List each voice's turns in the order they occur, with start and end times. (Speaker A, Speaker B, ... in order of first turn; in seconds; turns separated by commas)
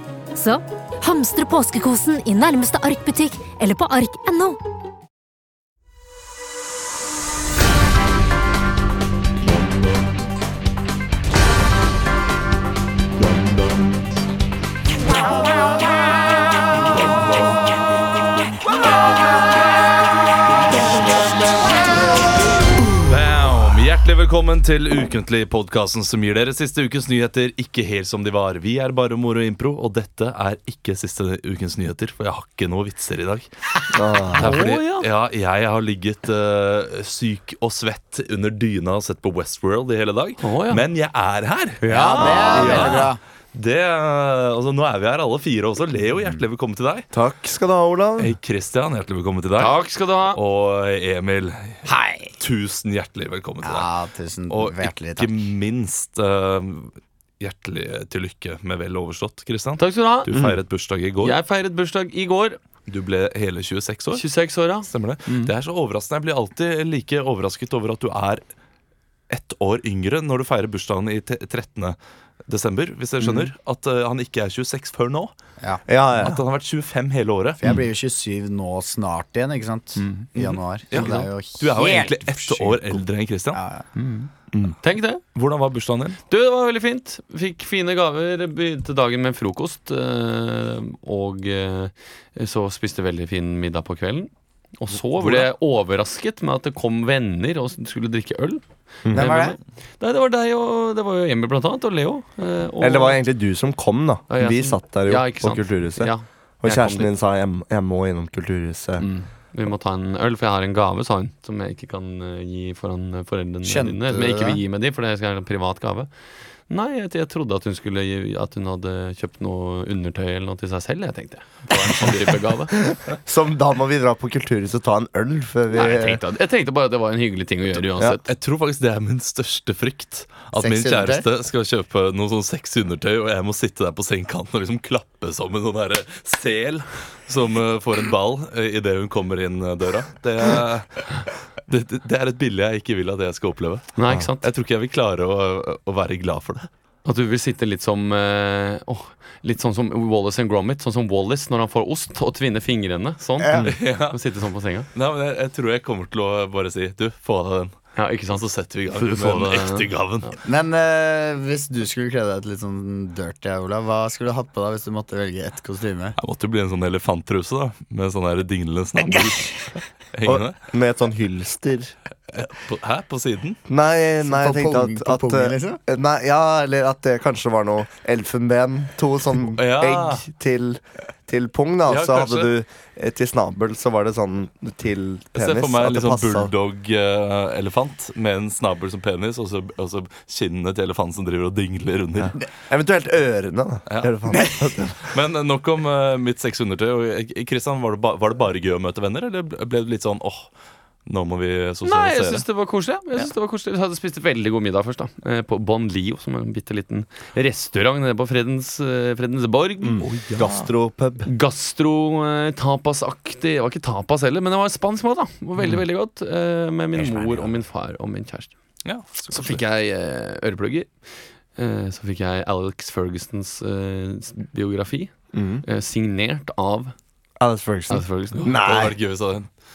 Speaker A: 0.3-4.6, Speaker B: 20.7-21.1, Speaker B: 22.7-33.5, Speaker C: 33.9-34.5, Speaker B: 34.3-47.1, Speaker D: 34.4-35.1, Speaker D: 40.4-40.8, Speaker D: 41.8-43.0, Speaker E: 41.8-43.2, Speaker C: 42.1-43.1, Speaker C: 47.1-48.4, Speaker B: 48.2-49.8, Speaker D: 49.6-50.4, Speaker B: 50.3-51.9, Speaker E: 51.9-52.3, Speaker B: 52.4-53.9, Speaker E: 53.6-55.5, Speaker B: 54.5-61.4, Speaker D: 59.8-60.3, Speaker C: 60.3-60.6, Speaker D: 61.2-62.6, Speaker B: 62.9-64.2, Speaker D: 64.1-64.9, Speaker B: 64.9-68.4, Speaker B: 69.3-72.0, Speaker B: 72.5-75.3, Speaker C: 75.9-76.4, Speaker B: 76.2-77.6, Speaker E: 77.6-83.9, Speaker B: 80.3-83.6, Speaker D: 80.9-81.3, Speaker D: 84.0-84.3, Speaker D: 84.8-85.2, Speaker B: 85.3-86.2, Speaker D: 86.3-103.2, Speaker C: 99.0-99.5, Speaker E: 99.1-99.5, Speaker C: 102.8-109.0, Speaker D: 104.3-107.1, Speaker D: 109.0-116.1, Speaker E: 113.6-114.6, Speaker D: 116.7-122.7, Speaker C: 122.8-126.2, Speaker D: 125.7-128.3, Speaker B: 128.0-141.1, Speaker E: 130.6-131.2, Speaker B: 141.7-146.7, Speaker D: 143.9-144.4, Speaker D: 147.0-154.9, Speaker E: 153.4-153.7, Speaker B: 153.6-154.2, Speaker B: 154.9-157.7, Speaker D: 157.9-160.3, Speaker B: 158.9-160.3, Speaker E: 160.4-166.2, Speaker B: 166.2-170.6, Speaker C: 170.2-171.9, Speaker B: 172.3-173.6, Speaker C: 173.7-186.5, Speaker E: 174.2-175.8, Speaker B: 179.6-180.2, Speaker B: 181.9-182.5, Speaker B: 185.3-192.4, Speaker C: 192.2-195.1, Speaker B: 193.9-194.4, Speaker B: 195.0-200.5, Speaker B: 201.1-202.4, Speaker D: 201.8-210.0, Speaker C: 209.8-211.3, Speaker B: 210.0-210.7, Speaker D: 211.2-218.5, Speaker C: 217.0-217.5, Speaker B: 218.8-219.6, Speaker D: 219.3-220.9, Speaker D: 221.6-226.9, Speaker C: 225.3-225.6, Speaker C: 227.4-229.0, Speaker D: 227.9-228.6, Speaker B: 228.5-229.5